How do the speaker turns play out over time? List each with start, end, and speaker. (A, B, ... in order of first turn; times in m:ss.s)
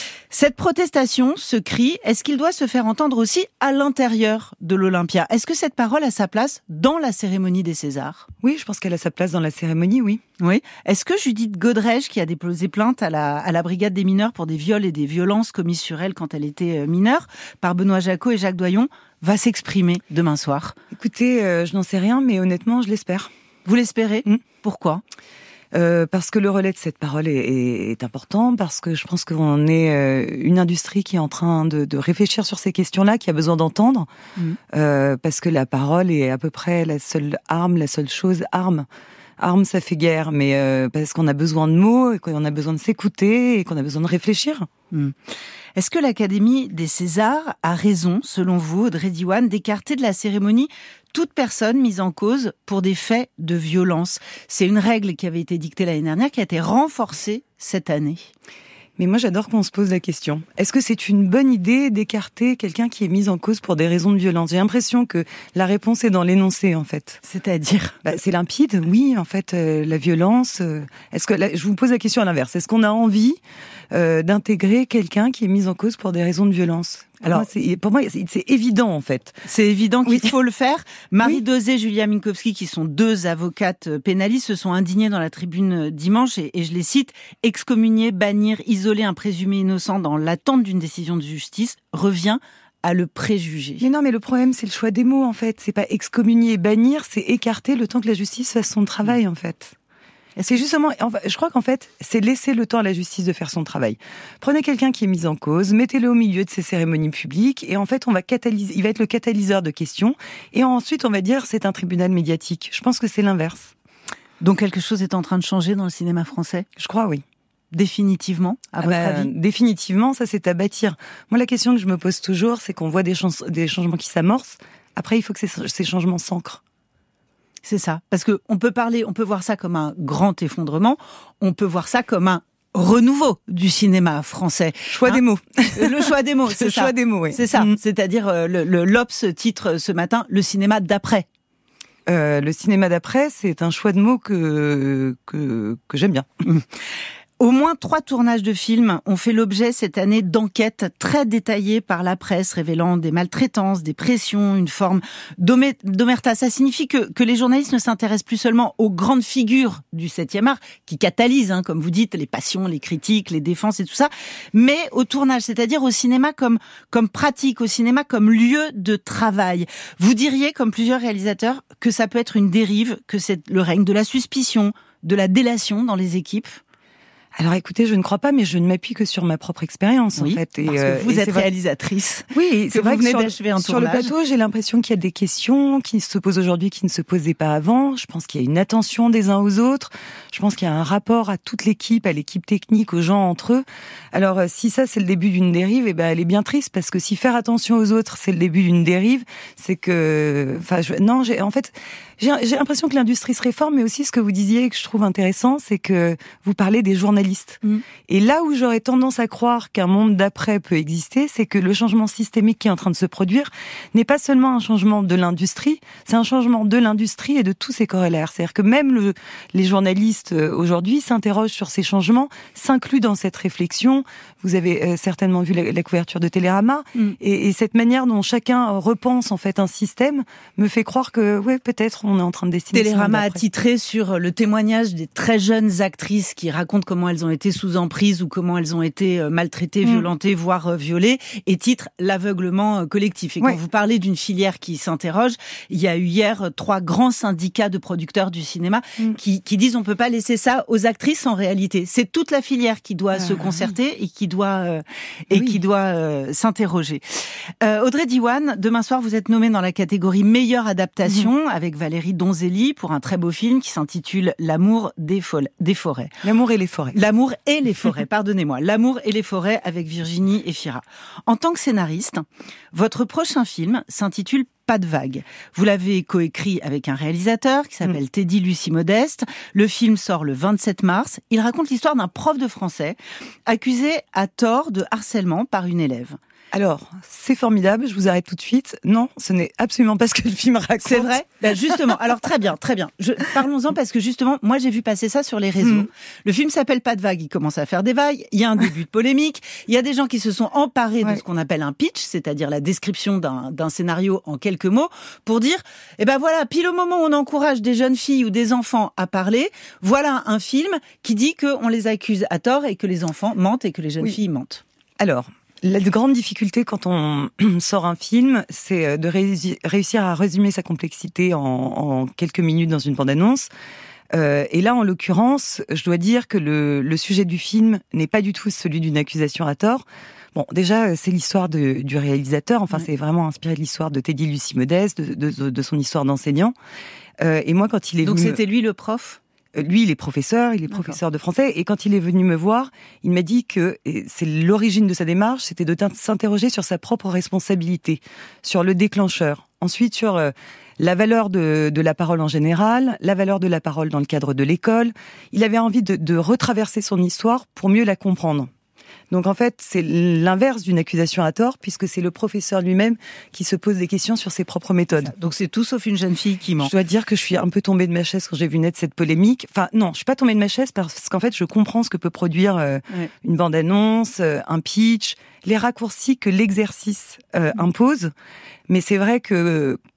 0:00.3-0:08.2 A
0:08.4-0:10.2 B
0:10.4-0:20.8 A
0:20.9-0:23.3 B
0:23.6-0:25.0 A
0:25.7-0:34.1 B
0:34.7-0:38.9 B
0:39.4-0:44.7 B
0:45.7-0:58.3 A
0:59.0-1:07.2 B
1:07.2-1:08.0 A
1:08.0-1:13.4 B
1:13.9-1:19.4 B
1:19.4-1:33.8 A
1:20.0-1:20.3 B
1:33.8-1:39.7 B
1:40.4-1:40.6 A
1:40.4-1:53.7 B
1:54.4-1:56.6 A
1:56.8-1:57.2 B
1:57.7-1:59.3 A
1:58.8-2:06.6 B
2:07.6-2:15.2 A
2:14.9-2:17.8 B
2:15.7-2:21.2 A
2:22.0-2:26.3 B
2:27.4-2:56.6 A
2:57.3-3:01.5 B
3:00.2-3:04.1 A
3:02.3-3:53.4 B
3:52.7-4:17.0 A
4:13.2-4:13.5 B
4:17.6-4:26.2 A
4:26.2-4:27.0 B
4:26.9-4:46.2 A
4:46.5-4:51.2 B
4:50.8-5:14.6 A
5:15.0-5:23.5 B
5:24.1-5:36.5 B
5:37.2-5:38.4 B
5:38.0-5:39.2 A
5:39.5-5:58.5 B
5:40.7-5:41.0 A
5:59.1-6:05.1 B
6:05.0-6:06.7 A
6:06.6-6:18.1 B
6:18.7-6:19.8 B